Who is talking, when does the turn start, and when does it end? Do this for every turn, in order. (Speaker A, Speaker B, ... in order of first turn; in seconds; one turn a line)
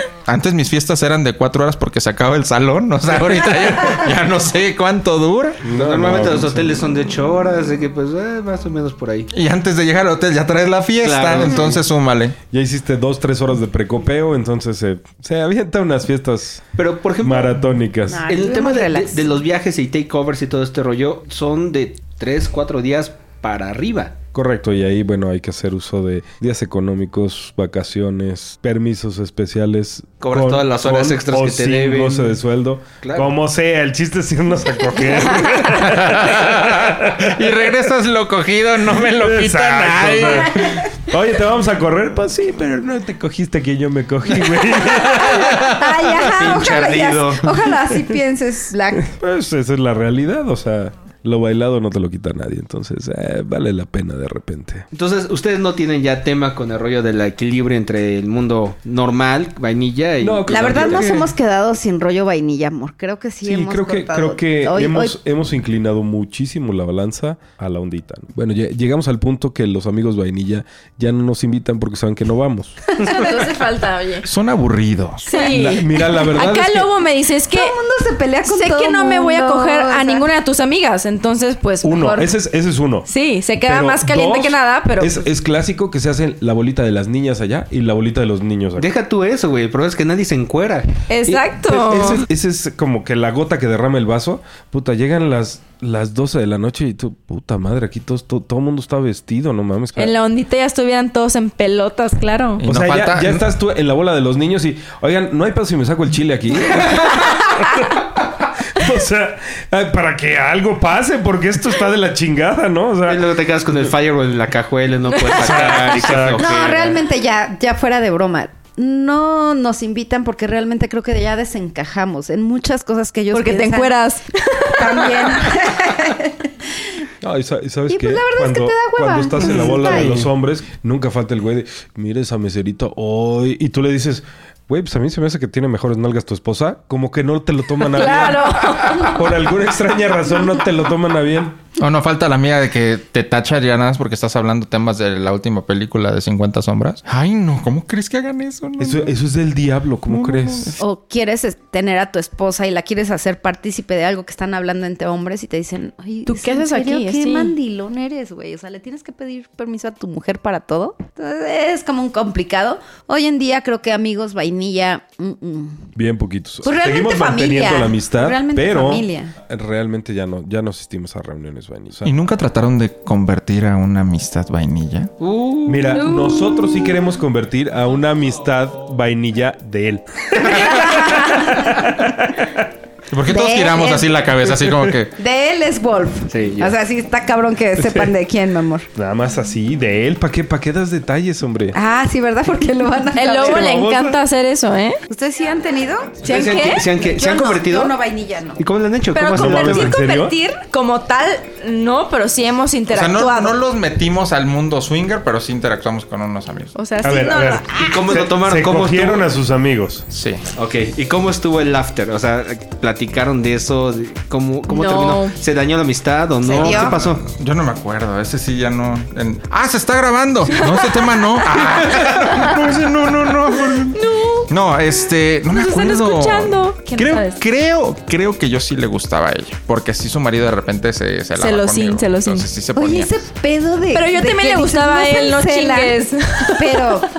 Speaker A: 0.3-5.7
Speaker B: 5.6-6.8
Speaker C: 5.7-9.3
Speaker A: 9.3-12.4
Speaker C: 11.0-11.8
Speaker B: 12.5-16.7
Speaker C: 16.8-17.6
Speaker B: 17.2-18.3
Speaker D: 18.1-19.3
Speaker C: 18.3-24.2
Speaker B: 24.3-37.5
Speaker C: 30.2-32.4
Speaker C: 33.0-33.3
Speaker A: 35.6-40.8
Speaker B: 38.9-45.8
Speaker D: 45.0-49.1
Speaker A: 45.5-45.8
Speaker C: 46.2-47.7
Speaker B: 49.0-54.9
Speaker C: 54.9-61.3
Speaker B: 60.2-61.3
Speaker D: 60.5-65.2
Speaker B: 63.4-72.9
Speaker D: 73.0-73.5
Speaker E: 73.0-74.3
Speaker A: 74.2-75.4
Speaker E: 75.3-77.8
Speaker B: 75.5-76.9
Speaker D: 77.5-80.3
Speaker E: 78.5-82.3
Speaker B: 81.8-83.1
Speaker E: 83.1-85.2
Speaker B: 83.6-88.9
Speaker C: 88.8-91.0
Speaker E: 91.1-92.3
Speaker B: 91.3-100.2
Speaker E: 100.0-102.6
Speaker A: 102.6-103.4
Speaker B: 102.7-113.3
Speaker C: 113.1-117.0
Speaker B: 115.3-116.5
Speaker D: 116.4-124.0
Speaker E: 123.3-125.6
Speaker D: 124.5-126.5
Speaker B: 127.2-141.6
Speaker D: 127.9-130.2
Speaker E: 129.7-130.1
Speaker E: 137.9-139.3
Speaker A: 141.8-149.1
Speaker B: 148.8-150.8
Speaker A: 150.1-150.8
Speaker D: 150.8-165.9
Speaker E: 156.3-157.5
Speaker B: 166.0-172.1
Speaker D: 166.6-169.3
Speaker A: 172.0-175.1
Speaker C: 175.2-176.0
Speaker B: 175.7-182.6
Speaker D: 180.5-181.7
Speaker A: 183.1-185.2
Speaker D: 183.3-184.2
Speaker D: 185.2-188.9
Speaker C: 186.3-186.8
Speaker B: 187.8-188.1
Speaker B: 188.9-191.8
Speaker D: 191.7-193.9
Speaker E: 193.2-195.0
Speaker B: 193.5-194.2
Speaker D: 195.1-196.2
Speaker E: 196.2-196.9
Speaker C: 196.2-198.0
Speaker D: 196.9-198.6
Speaker C: 198.6-200.0
Speaker E: 199.1-203.6
Speaker B: 199.3-200.4
Speaker A: 202.9-206.8
Speaker E: 206.8-207.7
Speaker B: 207.0-210.1
Speaker C: 207.8-209.3
Speaker A: 210.1-210.4
Speaker C: 210.6-217.2
Speaker E: 214.7-215.3
Speaker D: 216.4-217.0
Speaker A: 216.6-233.2
Speaker E: 220.5-222.6
Speaker E: 223.7-224.5
Speaker E: 225.5-227.4
Speaker E: 231.4-232.5
Speaker D: 232.8-237.1
Speaker E: 233.9-237.0